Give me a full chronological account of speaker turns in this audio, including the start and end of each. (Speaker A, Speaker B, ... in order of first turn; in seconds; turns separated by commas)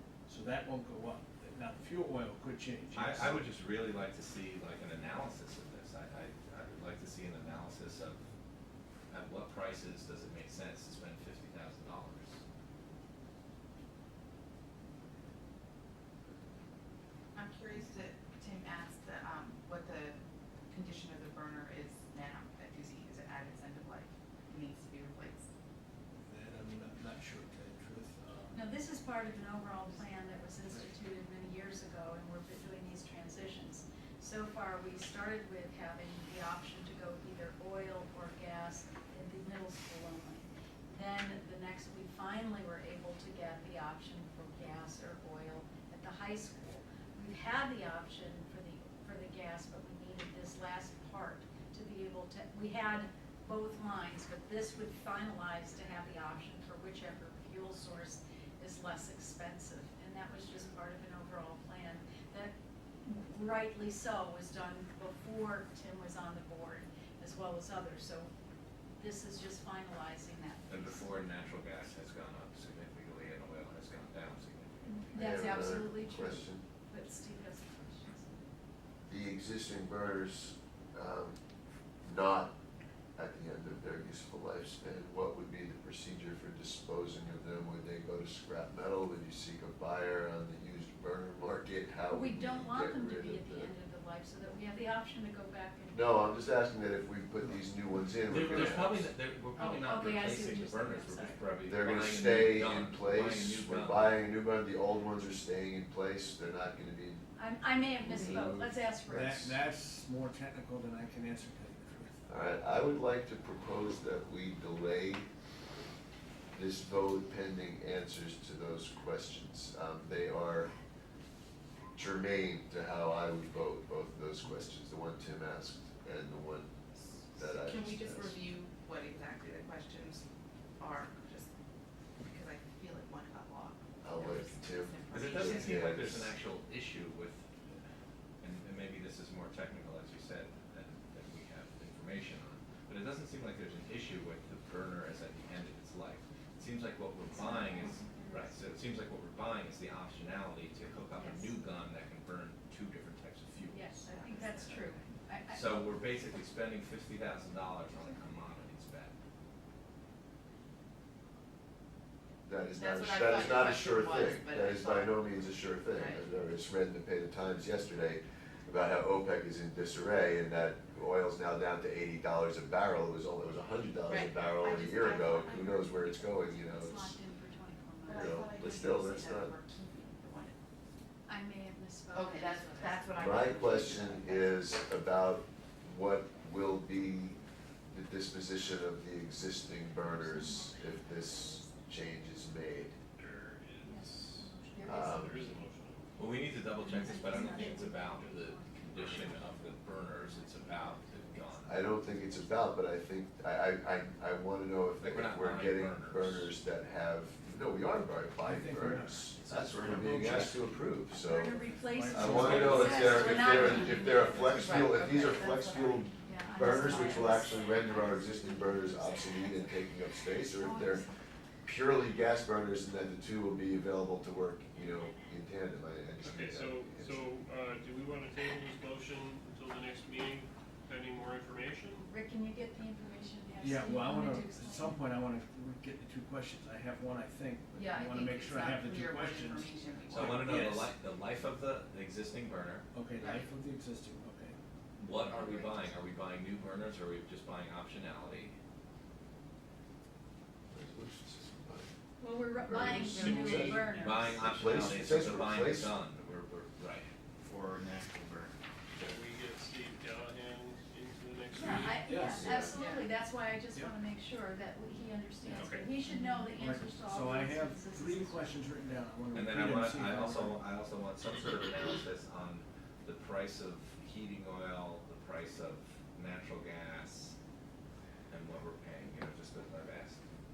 Speaker A: 0.2-3.4, Speaker B: 2.9-8.2, Speaker B: 9.1-12.3, Speaker C: 17.3-20.2, Speaker C: 20.7-25.5, Speaker A: 26.2-28.6, Speaker D: 28.5-62.5, Speaker D: 63.0-68.3, Speaker D: 69.0-71.2, Speaker B: 70.7-75.7, Speaker D: 74.9-78.4, Speaker E: 75.1-76.6, Speaker E: 79.0-81.4, Speaker E: 82.0-82.5, Speaker E: 83.2-93.7, Speaker D: 92.1-96.2, Speaker E: 95.9-99.1, Speaker B: 98.2-104.2, Speaker D: 99.5-101.6, Speaker E: 101.6-107.2, Speaker D: 107.3-109.6, Speaker E: 108.0-108.8, Speaker A: 109.0-112.3, Speaker E: 112.3-115.3, Speaker E: 116.5-120.7, Speaker E: 121.9-126.7, Speaker C: 127.0-130.2, Speaker E: 127.3-128.4, Speaker C: 130.8-131.5, Speaker C: 132.2-136.0, Speaker E: 134.0-136.3, Speaker B: 135.1-137.4, Speaker B: 138.4-159.1, Speaker D: 147.3-148.6, Speaker D: 151.2-151.5, Speaker D: 153.7-155.8, Speaker E: 162.4-177.2, Speaker C: 162.7-166.2, Speaker C: 174.1-175.9, Speaker D: 175.5-178.5, Speaker C: 178.0-180.6, Speaker E: 178.1-179.6, Speaker D: 181.2-183.2, Speaker C: 182.1-184.9, Speaker E: 183.2-193.0, Speaker D: 189.9-191.8, Speaker F: 193.2-196.2, Speaker D: 193.8-195.5, Speaker E: 194.8-195.4, Speaker B: 196.2-201.8, Speaker D: 196.8-202.7, Speaker F: 196.9-199.4, Speaker E: 201.7-221.1, Speaker B: 205.0-206.5, Speaker A: 208.4-210.8, Speaker D: 211.1-214.4, Speaker A: 211.7-213.2, Speaker B: 212.3-214.9, Speaker C: 214.4-217.5, Speaker D: 216.2-221.0, Speaker E: 221.6-227.3, Speaker F: 226.2-232.1, Speaker D: 232.0-235.0, Speaker A: 233.6-240.9, Speaker C: 237.7-240.6, Speaker B: 240.1-242.8, Speaker A: 242.9-244.6, Speaker C: 243.2-243.4, Speaker B: 245.0-248.5, Speaker C: 245.2-246.0, Speaker E: 250.7-251.9, Speaker D: 252.2-254.5, Speaker E: 252.7-253.8, Speaker C: 252.9-253.7, Speaker B: 253.9-257.1, Speaker E: 254.4-255.9, Speaker F: 259.0-262.2, Speaker D: 261.5-268.6, Speaker A: 262.0-262.6, Speaker E: 262.4-262.7, Speaker C: 262.6-263.1, Speaker F: 265.4-265.9, Speaker A: 266.5-270.6, Speaker B: 269.3-277.4, Speaker B: 278.3-280.2